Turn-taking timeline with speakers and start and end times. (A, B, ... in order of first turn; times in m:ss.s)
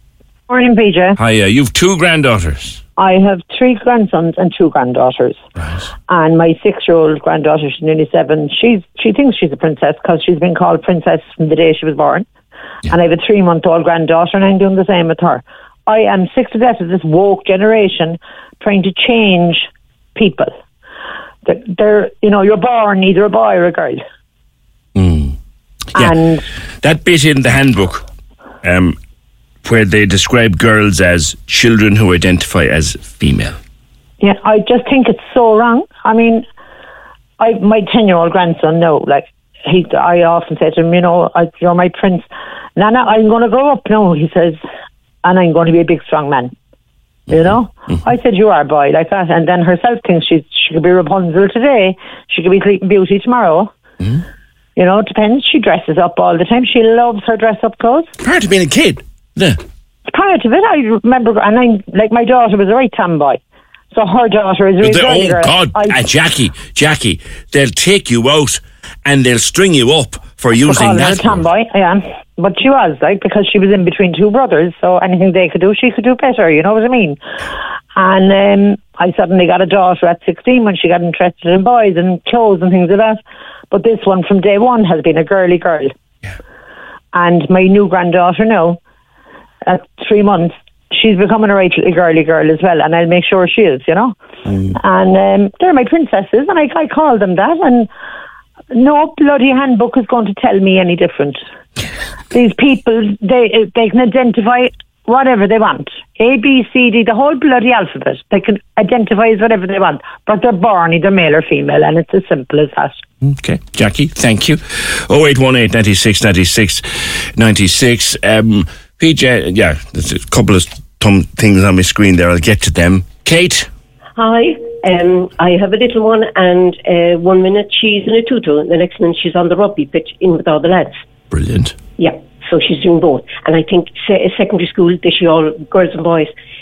0:00.5-0:01.2 A
0:01.2-0:02.8 B
0:03.0-0:05.4 A
0:05.6-0:05.8 B
0:06.1-0:12.3 A
0:12.9-0:20.5 A
0:21.4-0:24.0 A
0:25.0-0:25.3 B
0:25.9-0:26.4 A
0:26.8-0:28.0 B
0:28.6-0:29.0 B
0:29.6-0:33.6 B
0:34.2-0:36.4 A
0:37.4-0:44.6 A
0:45.2-0:46.5 A
0:47.3-0:53.7 A
0:54.8-0:58.1 A
0:58.2-0:59.6 B
1:00.1-1:03.4 A
1:03.9-1:06.0 A
1:04.8-1:11.4 B
1:10.6-1:17.2 A
1:17.9-1:23.2 A
1:23.7-1:25.9 A
1:27.1-1:28.8 A
1:29.6-1:34.1 A
1:34.7-1:37.9 A
1:38.7-1:41.4 A
1:42.3-1:53.0 A
1:53.2-2:03.7 B
2:04.2-2:10.9 C
2:11.3-2:11.8 B
2:12.0-2:16.2 C